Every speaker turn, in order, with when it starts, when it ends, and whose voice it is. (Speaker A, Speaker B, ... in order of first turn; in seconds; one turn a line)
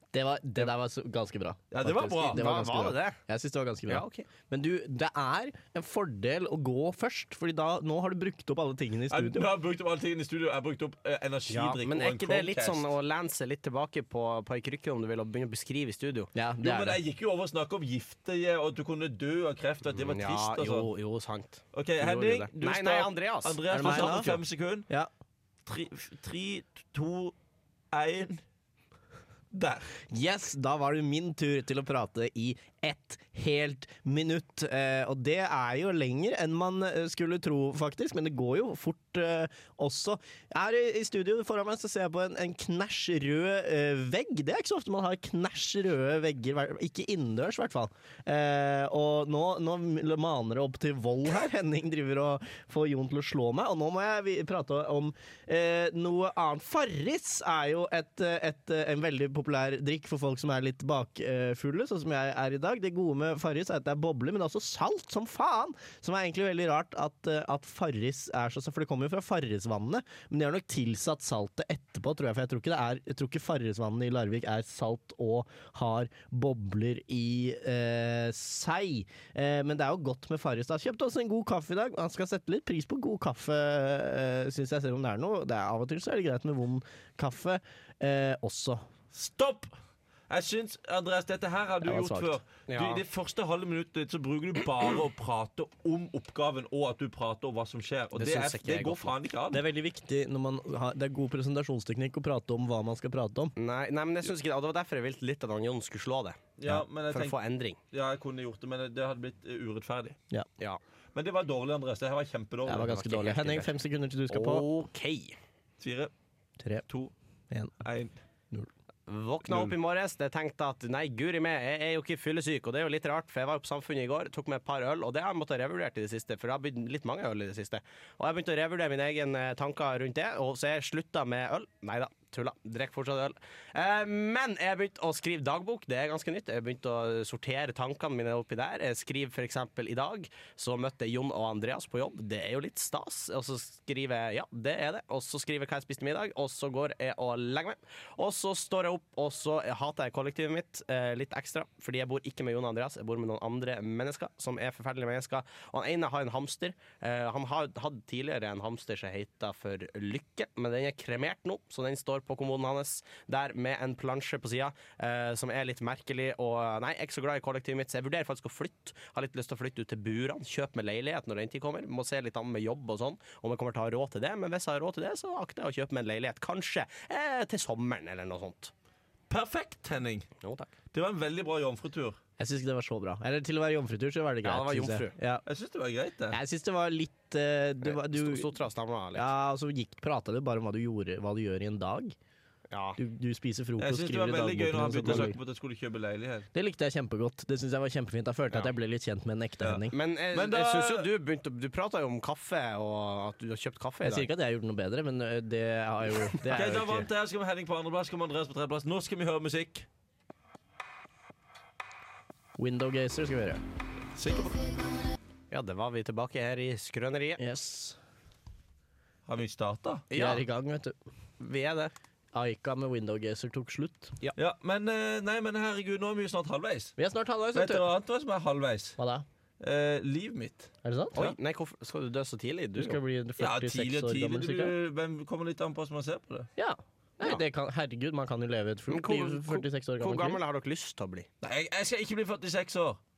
Speaker A: 0.1-9.5
Speaker B: 1.7-2.5
Speaker C: 2.3-3.2
Speaker C: 3.9-4.3
Speaker B: 9.1-12.9
Speaker C: 11.5-16.3
Speaker A: 16.3-17.0
Speaker B: 16.6-20.9
Speaker C: 19.9-24.1
Speaker B: 21.7-24.9
Speaker A: 23.7-25.1
Speaker B: 25.7-27.3
Speaker B: 27.9-28.4
Speaker B: 29.5-29.9
Speaker A: 30.1-88.8
Speaker B: 89.1-89.7
Speaker B: 90.3-99.6
Speaker A: 91.8-92.4
Speaker C: 92.7-93.0
Speaker C: 98.2-99.1
Speaker A: 99.5-103.5
Speaker C: 103.6-106.4
Speaker B: 106.6-107.4
Speaker C: 107.1-107.8
Speaker B: 107.9-110.2
Speaker B: 111.2-113.0
Speaker A: 112.7-114.7
Speaker C: 112.8-113.7
Speaker C: 114.3-115.4
Speaker B: 115.8-116.1
Speaker A: 116.6-116.8
Speaker B: 117.8-118.2
Speaker C: 119.1-178.7
Speaker B: 119.5-119.7
Speaker B: 179.3-180.3
Speaker C: 180.4-180.7
Speaker B: 180.9-182.2
Speaker A: 182.4-185.4
Speaker C: 184.4-185.2
Speaker B: 185.5-186.4
Speaker A: 186.3-188.5
Speaker C: 187.8-189.3
Speaker A: 189.2-192.2
Speaker C: 192.7-193.0
Speaker A: 193.0-195.4
Speaker B: 193.8-196.5
Speaker A: 196.5-199.9
Speaker B: 199.6-201.1
Speaker C: 199.9-204.3
Speaker A: 204.0-207.1
Speaker C: 206.4-207.0
Speaker B: 206.5-209.9
Speaker A: 212.6-213.6
Speaker B: 214.2-214.8
Speaker C: 215.5-217.4
Speaker A: 217.4-218.0
Speaker B: 219.3-220.1
Speaker C: 220.1-220.4
Speaker A: 220.1-220.9
Speaker C: 221.4-221.9
Speaker A: 222.3-224.2
Speaker B: 224.4-226.9
Speaker A: 227.0-227.9
Speaker B: 227.5-229.0
Speaker A: 229.0-229.3
Speaker B: 229.6-231.4
Speaker A: 230.8-231.2
Speaker C: 231.2-233.0
Speaker A: 232.8-234.8
Speaker B: 233.4-236.5
Speaker A: 236.6-240.4
Speaker C: 238.9-241.3
Speaker B: 241.4-243.0